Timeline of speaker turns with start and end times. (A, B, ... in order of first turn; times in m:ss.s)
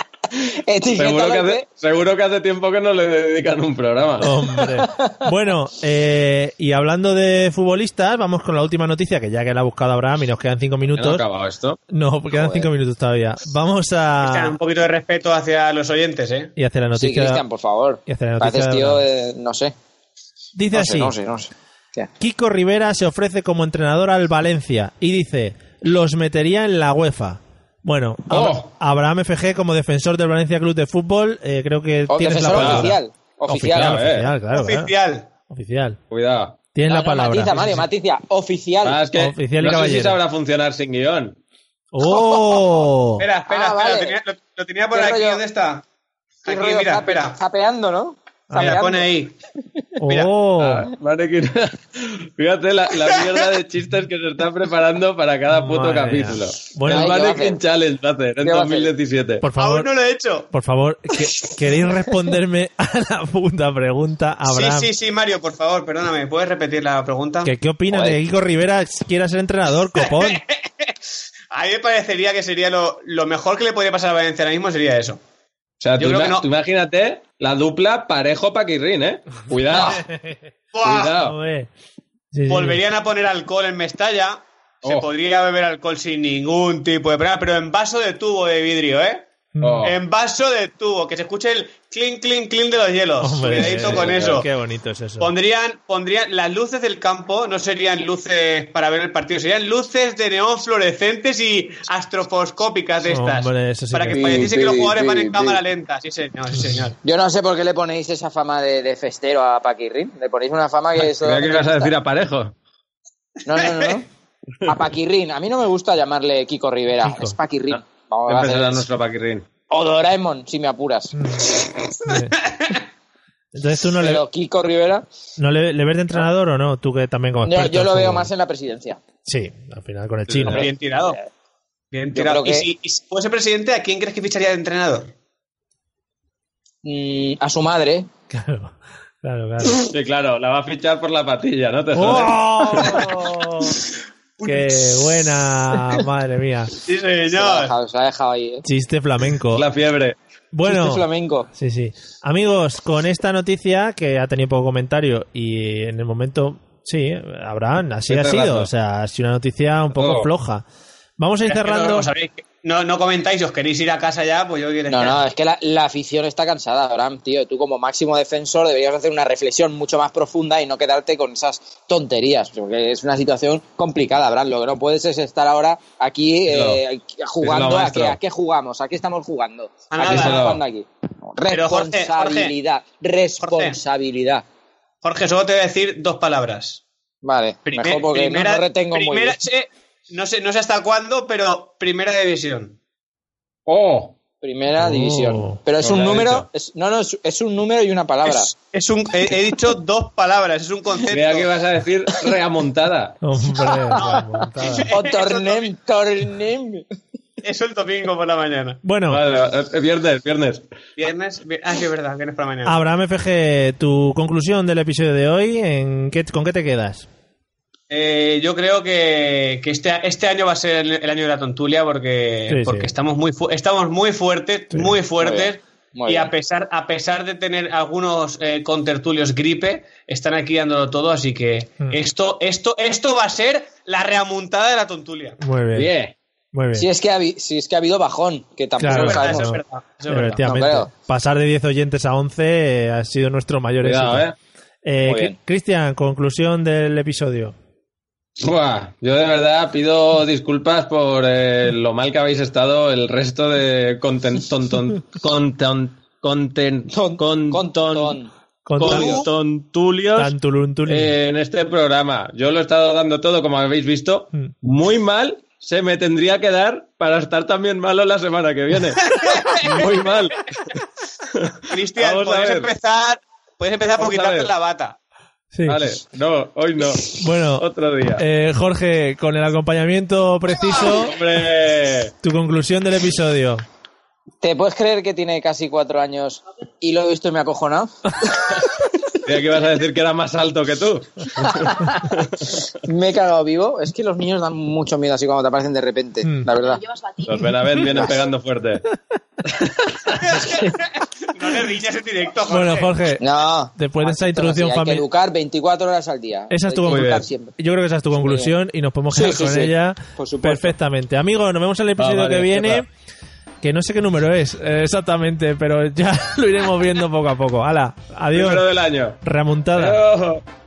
0:00.3-0:01.6 A
0:01.0-0:04.3 B
0:04.2-0:11.2 C
0:04.6-0:05.3 A
0:10.9-0:11.8 B
0:11.9-0:14.6 C
0:12.3-0:12.7 A
0:14.2-0:16.5 D
0:16.6-0:17.4 C
0:16.9-0:19.7 A
0:18.1-0:19.0 C
0:20.5-0:21.2 C
0:20.7-0:22.1 A
0:22.2-0:34.9 C
0:28.3-0:28.7 B
0:32.1-0:34.0 A
0:32.5-0:32.9 B
0:33.6-0:34.3 B
0:34.5-0:35.3 D
0:35.5-0:36.0 C
0:36.1-0:36.6 B
0:36.7-0:37.8 C
0:36.9-0:39.0 A
0:38.8-0:41.4 B
0:39.1-0:40.2 C
0:41.9-0:43.3 C
0:42.1-0:42.6 A
0:43.2-0:45.8 D
0:43.5-0:44.2 A
0:44.9-0:45.4 A
0:46.4-0:47.4 D
0:46.4-0:49.1 A
0:48.5-0:48.9 C
0:48.6-0:49.3 D
0:50.0-0:50.9 C
0:50.6-0:59.4 B
0:55.5-0:57.2 C
0:56.9-0:57.6 A
0:58.4-0:58.9 A
0:59.4-0:59.9 C
0:59.6-1:00.5 D
1:00.5-1:04.9 C
1:04.5-1:07.5 D
1:07.4-1:10.4 C
1:07.9-1:08.2 A
1:10.0-1:10.9 D
1:11.5-1:15.2 D
1:15.8-1:20.0 B
1:16.0-1:16.4 D
1:19.7-1:20.4 C
1:20.7-1:21.2 D
1:20.8-1:21.3 B
1:21.2-1:21.7 C
1:22.3-1:22.8 C
1:22.5-1:29.2 D
1:24.8-1:25.1 B
1:29.6-1:29.9 C
1:29.6-1:30.0 B
1:29.8-1:34.5 D
1:33.2-1:35.3 C
1:33.5-1:34.4 B
1:35.2-1:47.0 D
1:43.0-1:44.5 C
1:44.1-1:45.6 A
1:47.0-1:51.9 A
1:51.0-1:52.5 B
1:53.4-1:54.1 A
1:54.6-1:58.8 A
1:57.0-1:57.4 C
1:58.3-1:59.5 B
1:59.7-2:01.2 A
2:01.1-2:01.5 C
2:02.0-2:02.4 C
2:03.5-2:04.2 C
2:04.0-2:05.0 A
2:05.4-2:08.3 C
2:07.4-2:09.0 A
2:09.2-2:10.7 C
2:10.3-2:10.6 B
2:10.4-2:11.2 D
2:11.9-2:15.1 D
2:12.1-2:12.7 A
2:16.8-2:18.1 A
2:18.3-2:19.9 C
2:19.8-2:23.0 B
2:21.9-2:23.8 C
2:24.4-2:26.8 C
2:26.8-2:27.7 D
2:27.3-2:28.6 A
2:28.6-2:29.7 C
2:29.5-2:30.2 B
2:30.5-2:40.6 C
2:30.7-2:31.5 A
2:38.1-2:38.7 B
2:40.0-2:40.3 B
2:41.2-2:42.1 C
2:41.5-2:45.2 D
2:44.9-3:04.4 A
2:56.5-2:56.8 B
2:57.4-2:58.2 B
2:59.9-3:00.4 D
3:00.0-3:00.6 B
3:01.5-3:02.5 D
3:03.4-3:03.8 D
3:05.0-3:06.8 D
3:07.2-3:09.4 A
3:07.6-3:12.8 D
3:13.7-3:14.2 B
3:14.4-3:18.5 A
3:14.8-3:15.6 C
3:15.8-3:16.5 B
3:18.2-3:21.5 D
3:21.1-3:23.2 B
3:23.2-3:24.9 C
3:23.6-3:26.8 A
3:24.0-3:25.7 D
3:27.4-3:28.8 D
3:28.8-3:29.2 C
3:29.1-3:30.6 B
3:31.0-3:32.8 D
3:32.6-3:37.1 C
3:37.9-3:55.4 D
3:42.5-3:42.9 C
3:45.2-3:46.3 A
3:55.4-3:55.9 C
3:55.7-3:56.1 B
3:56.5-3:56.9 C
3:56.7-3:59.6 A
3:58.8-4:04.3 C
3:58.8-4:00.4 D
4:00.4-4:00.9 A
4:03.8-4:04.4 B
4:04.8-4:07.5 C
4:05.0-4:05.4 A
4:08.4-4:18.2 B
4:16.9-4:19.2 A
4:18.6-4:19.2 C
4:18.8-4:20.3 B
4:20.1-4:21.1 C
4:20.8-4:30.7 B
4:29.1-4:29.9 D
4:31.3-4:32.7 B
4:31.7-4:35.0 D
4:34.0-4:34.5 B
4:35.5-4:35.8 C
4:35.6-4:38.2 B
4:37.1-4:41.2 C
4:40.8-4:42.1 B
4:42.2-4:43.6 C
4:44.4-4:47.9 A
4:49.2-4:52.4 B
4:51.6-4:52.0 A
4:52.8-4:58.2 A
4:56.2-4:56.5 C
4:57.2-4:58.8 B
4:59.5-5:00.1 B
5:00.2-5:02.9 D
5:02.5-5:05.0 C
5:03.2-5:07.6 A
5:06.5-5:12.9 C
5:06.9-5:07.2 B
5:08.2-5:08.5 A
5:09.1-5:10.7 A
5:12.0-5:12.8 B
5:13.6-5:18.7 C
5:18.3-5:19.2 B
5:19.2-5:20.0 C
5:19.7-5:20.4 B